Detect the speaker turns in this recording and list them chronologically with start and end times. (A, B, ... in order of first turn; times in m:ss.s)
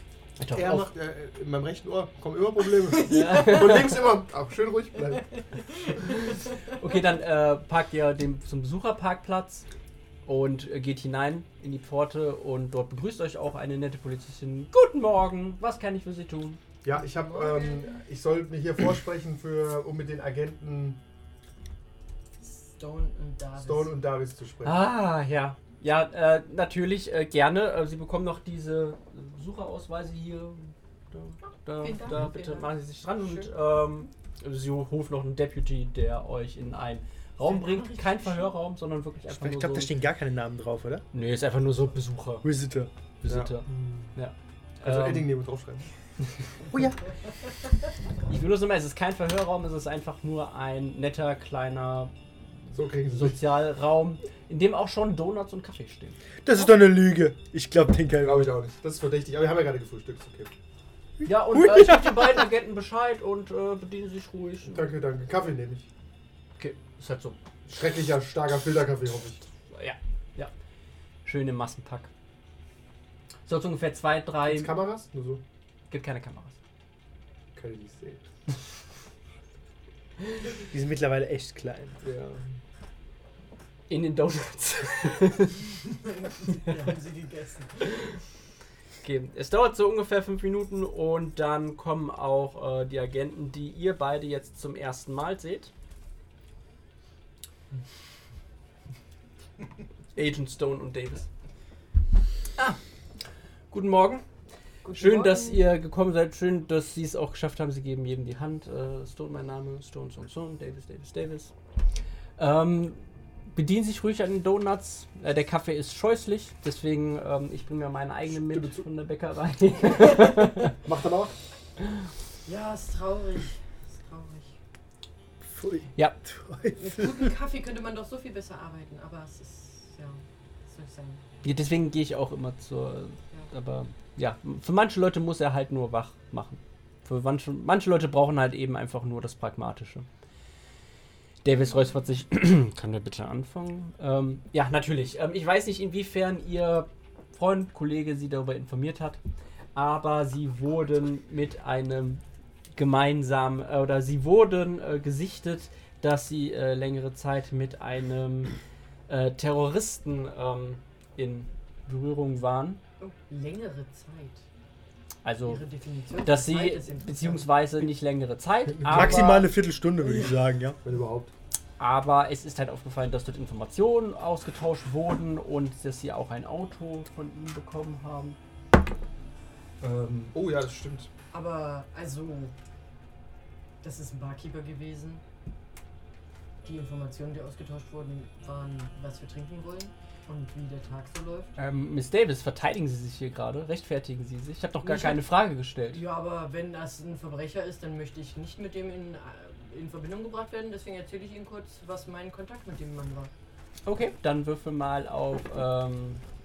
0:00.4-0:00.9 A
0:00.4-0:05.3 B
0:02.7-0:04.1 C
0:03.0-0:03.9 A
0:05.5-0:06.6 C
0:06.0-0:09.7 A
0:10.3-0:16.6 A
0:16.8-0:21.0 B
0:16.9-0:18.0 C
0:22.4-0:23.9 C
0:23.6-0:24.8 B
0:24.6-0:40.0 A
0:31.8-0:33.5 C
0:37.4-0:38.5 C
0:39.3-0:41.0 D
0:41.1-0:42.5 A
0:42.4-0:42.9 D
0:43.2-0:45.3 A
0:43.3-0:44.0 B
0:44.8-0:45.9 B
0:46.7-0:47.0 D
0:48.3-0:52.1 A
0:52.7-0:53.4 B
0:53.0-0:56.2 A
0:56.4-0:58.5 D
0:58.2-1:00.5 B
1:01.2-1:02.5 D
1:01.2-1:04.9 A
1:04.7-1:05.9 B
1:06.6-1:07.4 A
1:07.7-1:09.4 B
1:09.7-1:10.5 A
1:11.2-1:12.1 A
1:13.5-1:14.7 A
1:14.4-1:15.4 B
1:15.9-1:16.6 A
1:17.6-1:18.2 B
1:20.7-1:22.0 D
1:22.0-1:22.4 B
1:23.9-1:25.6 A
1:25.9-1:27.9 C
1:29.0-1:35.7 A
1:40.2-1:41.3 A
1:43.7-1:44.2 A
1:44.8-1:45.6 C
1:44.9-1:51.5 A
1:52.4-1:53.0 A
1:53.5-2:00.8 A
1:58.4-1:58.8 B
2:00.7-2:01.4 B
2:02.5-2:04.6 C
2:05.4-2:07.3 D
2:06.8-2:11.2 C
2:11.4-2:20.1 A
2:21.4-2:29.2 A
2:29.8-2:32.2 A
2:32.8-2:38.5 A
2:39.1-2:42.8 A
2:43.0-2:44.4 C
2:45.2-2:45.6 A
2:45.4-2:47.5 C
2:46.2-2:49.5 A
2:48.8-2:49.4 B
2:48.8-2:50.8 D
2:50.8-2:51.3 B
2:51.8-2:58.4 A
2:59.8-3:01.1 B
3:01.3-3:02.5 C
3:03.8-3:05.2 C
3:06.6-3:11.5 C
3:11.6-3:16.0 A
3:14.8-3:15.3 C
3:15.9-3:23.3 C
3:23.9-3:26.2 A